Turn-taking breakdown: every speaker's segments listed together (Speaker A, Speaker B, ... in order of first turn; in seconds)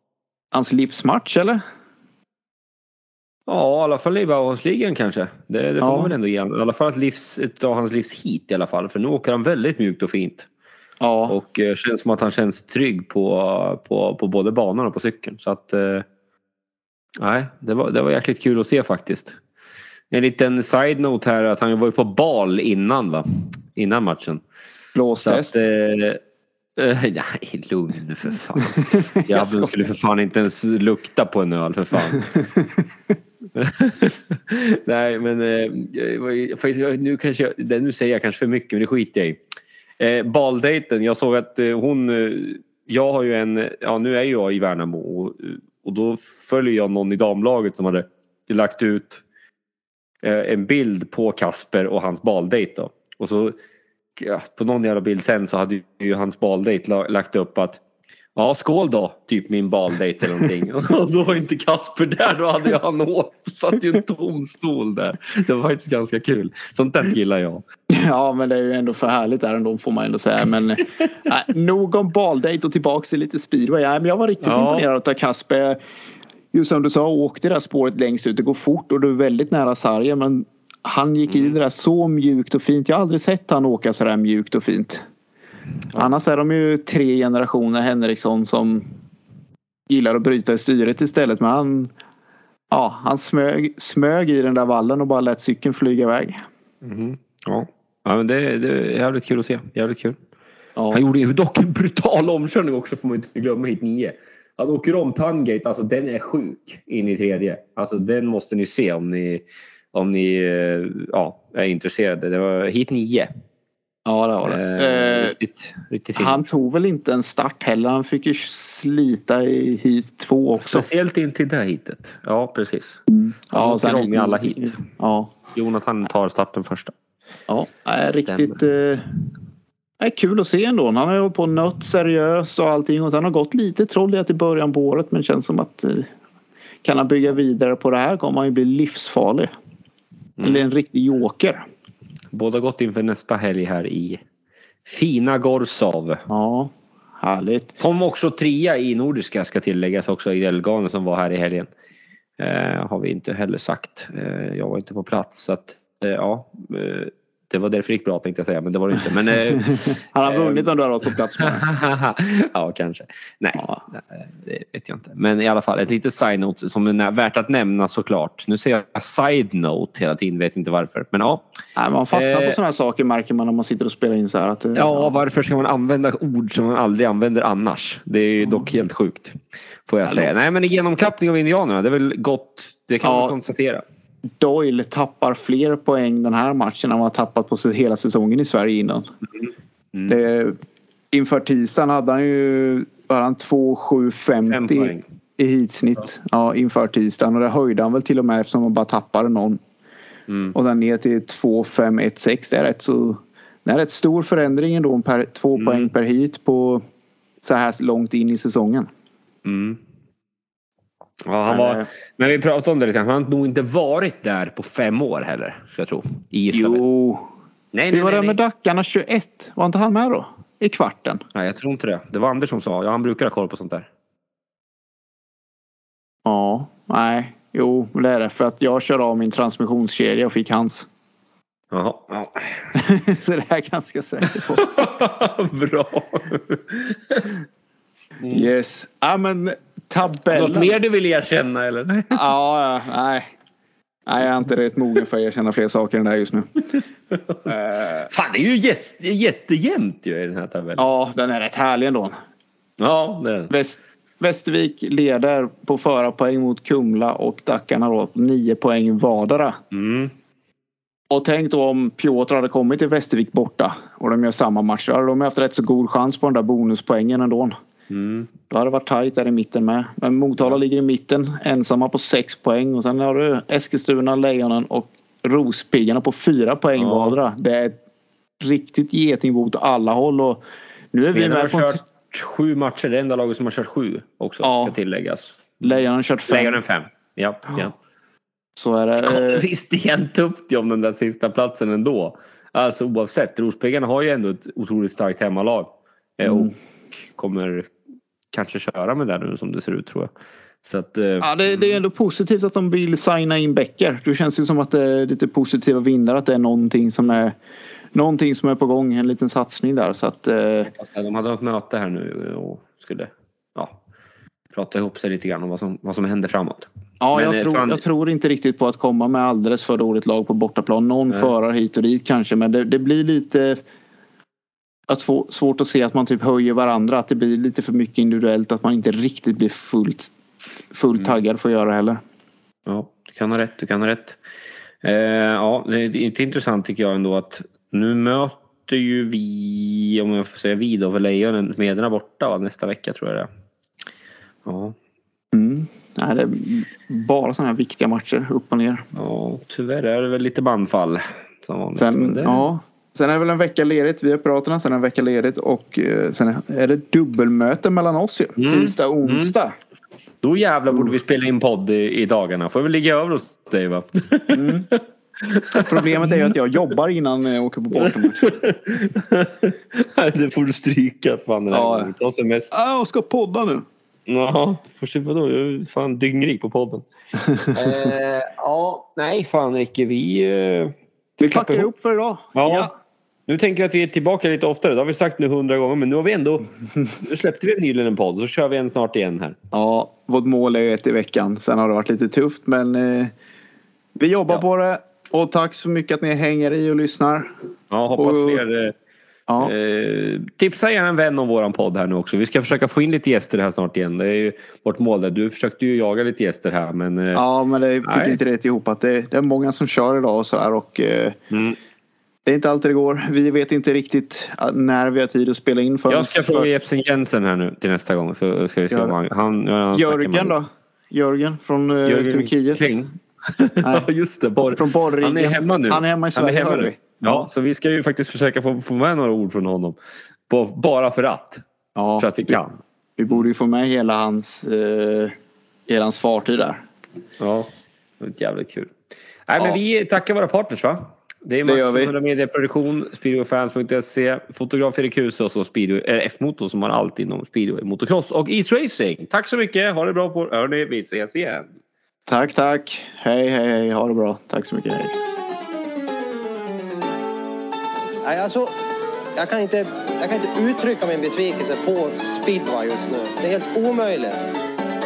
Speaker A: 0.5-1.6, 5.8-6.1, 11.0-11.4, 24.9-25.6, 28.9-29.7, 67.9-75.8, 76.5-85.0, 85.9-88.9, 89.9-91.9, 92.7-96.4, 100.8-101.0, 114.0-115.4, 116.1-120.9, 123.1-125.3, 127.5-129.2, 130.0-136.1, 136.8-139.5, 140.4-141.6, 146.3-147.8, 160.0-161.7, 163.6-163.8, 171.8-175.1, 178.4-178.7, 183.0-183.3, 184.4-189.1, 190.1-190.6, 191.1-199.6, 200.5-206.8, 207.4-208.9, 211.5-211.9, 216.5-217.3, 217.9-221.2, 226.2-230.9, 232.7-234.7, 238.3-240.8, 242.1-243.3, 244.1-246.5, 247.4-248.1, 250.8-252.2, 253.5-259.6, 261.1-267.6, 268.5-277.7, 278.4-280.4, 280.9-281.8, 284.4-284.8, 285.6-286.6, 288.6-289.4, 296.2-296.5, 301.2-307.3, 307.9-310.7, 317.0-323.6, 324.9-330.1, 330.7-332.0, 345.3-348.9, 351.8-359.6, 364.3-364.7, 365.6-368.3, 371.5-371.9, 372.5-373.6, 381.2-382.7, 389.5-393.1, 393.9-397.3, 398.0-398.4, 399.3-399.5, 407.1-411.1, 412.3-416.5, 418.7-418.9, 419.7-422.7, 423.6-423.9, 424.5-427.3, 431.8-432.4, 433.0-435.1, 435.7-436.6, 441.4-441.9, 452.1-455.0
Speaker B: 3.5-10.5, 11.3-16.1, 17.2-19.4, 20.1-24.4, 25.2-26.2, 26.8-32.3, 33.5-39.4, 40.0-49.2, 50.2-53.5, 54.2-57.8, 58.3-67.6, 74.4-74.9, 81.3-81.5, 96.8-100.2, 100.9-113.3, 114.4-116.5, 120.6-123.0, 123.5-124.8, 125.5-126.9, 128.2-128.6, 140.4-140.7, 142.3-144.2, 144.8-146.2, 147.8-151.7, 152.4-160.7, 161.4-171.4, 172.1-172.6, 174.7-183.8, 189.4-190.2, 194.4-195.0, 200.3-200.6, 205.6-205.9, 209.4-209.8, 211.3-216.8, 217.7-218.4, 221.3-223.9, 231.7-232.6, 234.3-237.4, 240.3-242.3, 248.1-250.9, 252.8-253.5, 259.7-260.1, 267.9-268.3, 276.8-277.1, 281.0-285.6, 286.3-287.7, 289.0-296.5, 297.1-297.7, 298.3-300.1, 300.6-301.8, 310.7-313.8, 314.5-317.8, 332.6-334.2, 334.8-343.3, 344.4-344.7, 348.9-352.5, 358.4-359.3, 360.2-366.3, 367.7-372.5, 374.1-376.8, 377.5-381.7, 382.4-382.7, 383.3-389.4, 397.7-398.7, 399.4-407.2, 407.8-408.2, 411.3-411.6, 415.9-420.3, 421.9-429.8, 430.3-431.4, 432.0-432.6, 437.2-438.7, 439.3-451.5
Speaker C: 458.0-458.5, 459.1-464.3